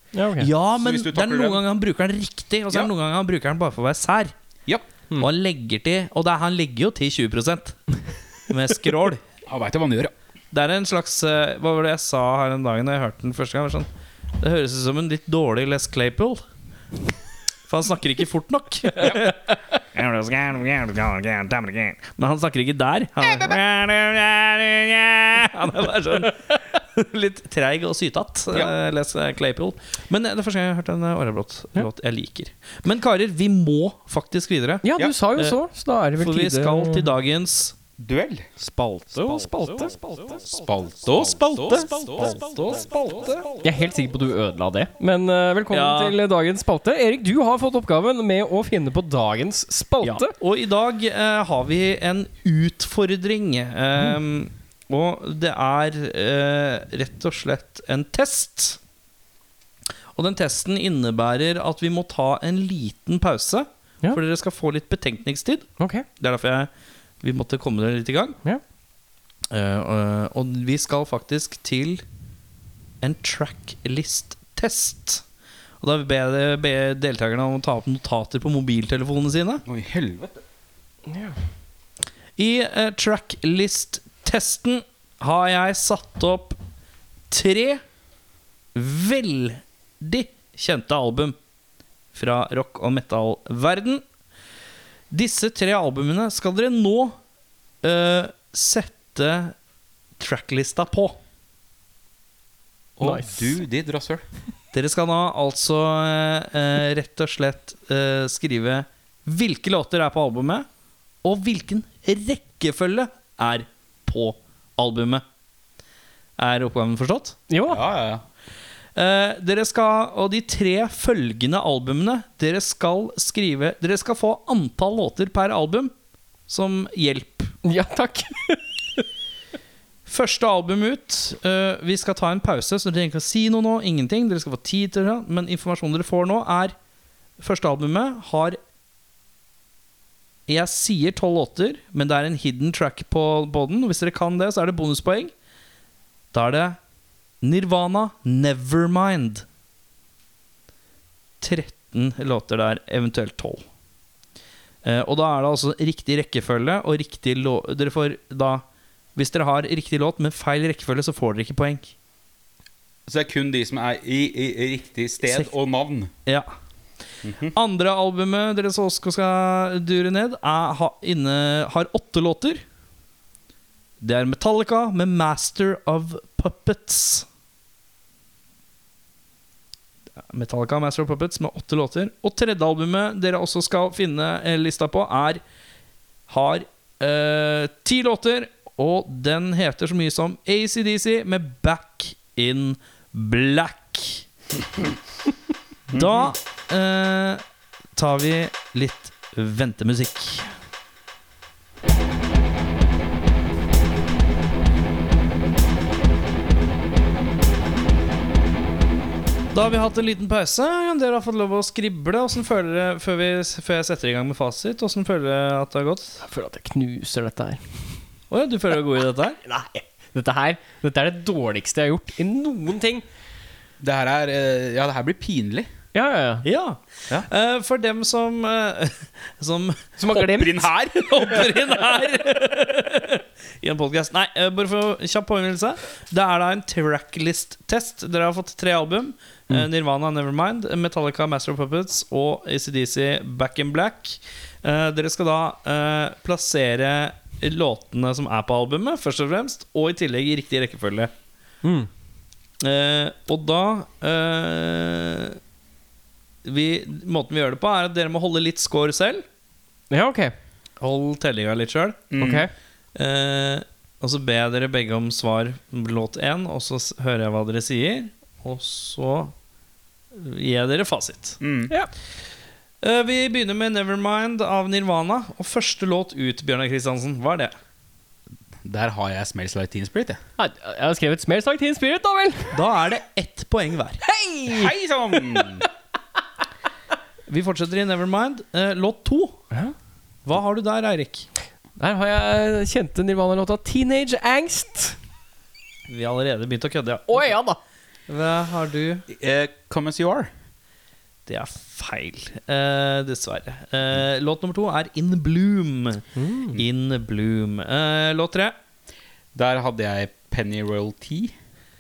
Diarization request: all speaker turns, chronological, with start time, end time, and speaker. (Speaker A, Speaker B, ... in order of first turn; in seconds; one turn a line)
Speaker A: 0.1-0.5
Speaker B: 0.4-4.3
Speaker C: 0.7-1.6
Speaker B: 5.2-7.8
Speaker B: 8.5-9.2
Speaker C: 9.5-10.1
Speaker B: 10.5-13.9
Speaker B: 14.4-16.4
Speaker B: 17.7-34.9
Speaker A: 34.8-37.1
Speaker B: 36.2-37.8
Speaker C: 38.0-38.5
Speaker B: 38.6-39.4
Speaker A: 39.1-40.0
Speaker C: 40.5-42.4
Speaker B: 41.1-43.5
Speaker A: 43.6-50.3
Speaker B: 45.7-46.2
Speaker B: 50.0-58.8
Speaker B: 60.1-66.7
Speaker A: 65.8-66.0
Speaker B: 67.2-68.4
Speaker B: 69.5-72.0
Speaker B: 73.0-75.2
Speaker B: 75.8-79.6
Speaker C: 79.7-80.4
Speaker B: 82.4-86.6
Speaker B: 87.3-87.8
Speaker B: 88.8-91.4
Speaker B: 92.1-94.0
Speaker B: 95.1-97.2
Speaker B: 97.8-99.5
Speaker B: 100.2-101.2
Speaker C: 103.0-104.2
Speaker A: 103.0-103.6
Speaker B: 104.7-110.7
Speaker B: 111.2-115.2
Speaker B: 116.4-117.4
Speaker A: 117.5-117.8
Speaker C: 117.7-118.2
Speaker B: 119.0-125.9
Speaker B: 126.5-127.5
Speaker A: 127.6-128.6
Speaker B: 130.1-136.7
Speaker B: 137.4-138.6
Speaker B: 140.5-145.3
Speaker B: 146.3-146.8
Speaker B: 147.4-149.4
Speaker B: 151.4-153.6
Speaker B: 154.8-158.6
Speaker B: 159.2-161.9
Speaker C: 163.1-166.1
Speaker B: 165.3-165.5
Speaker C: 167.2-167.6
Speaker B: 167.5-172.6
Speaker B: 174.0-177.3
Speaker B: 180.3-185.4
Speaker B: 186.3-194.2
Speaker C: 195.9-196.3
Speaker B: 195.9-197.4
Speaker B: 198.0-200.5
Speaker B: 209.5-216.2
Speaker A: 216.2-217.6
Speaker B: 218.3-219.4
Speaker A: 219.4-223.0
Speaker C: 223.8-225.7
Speaker A: 225.9-226.5
Speaker B: 226.4-229.9
Speaker A: 230.0-230.7
Speaker C: 230.2-231.4
Speaker B: 230.9-251.1
Speaker A: 251.6-251.9
Speaker B: 252.6-255.4
Speaker B: 256.4-259.2
Speaker A: 259.9-260.4
Speaker B: 260.8-262.1
Speaker C: 262.1-262.5
Speaker A: 262.2-262.5
Speaker B: 262.9-269.3
Speaker B: 270.1-271.4
Speaker C: 271.4-271.7
Speaker B: 272.8-277.5
Speaker C: 278.6-280.2
Speaker A: 280.4-282.6
Speaker B: 282.5-284.0
Speaker A: 284.0-284.7
Speaker C: 284.5-285.7
Speaker B: 287.3-289.4
Speaker B: 290.2-291.3
Speaker A: 291.8-295.0
Speaker B: 295.9-297.3
Speaker A: 297.1-297.6
Speaker B: 298.1-299.1
Speaker C: 299.1-300.3
Speaker B: 301.3-308.6
Speaker A: 306.2-306.6
Speaker C: 309.3-311.3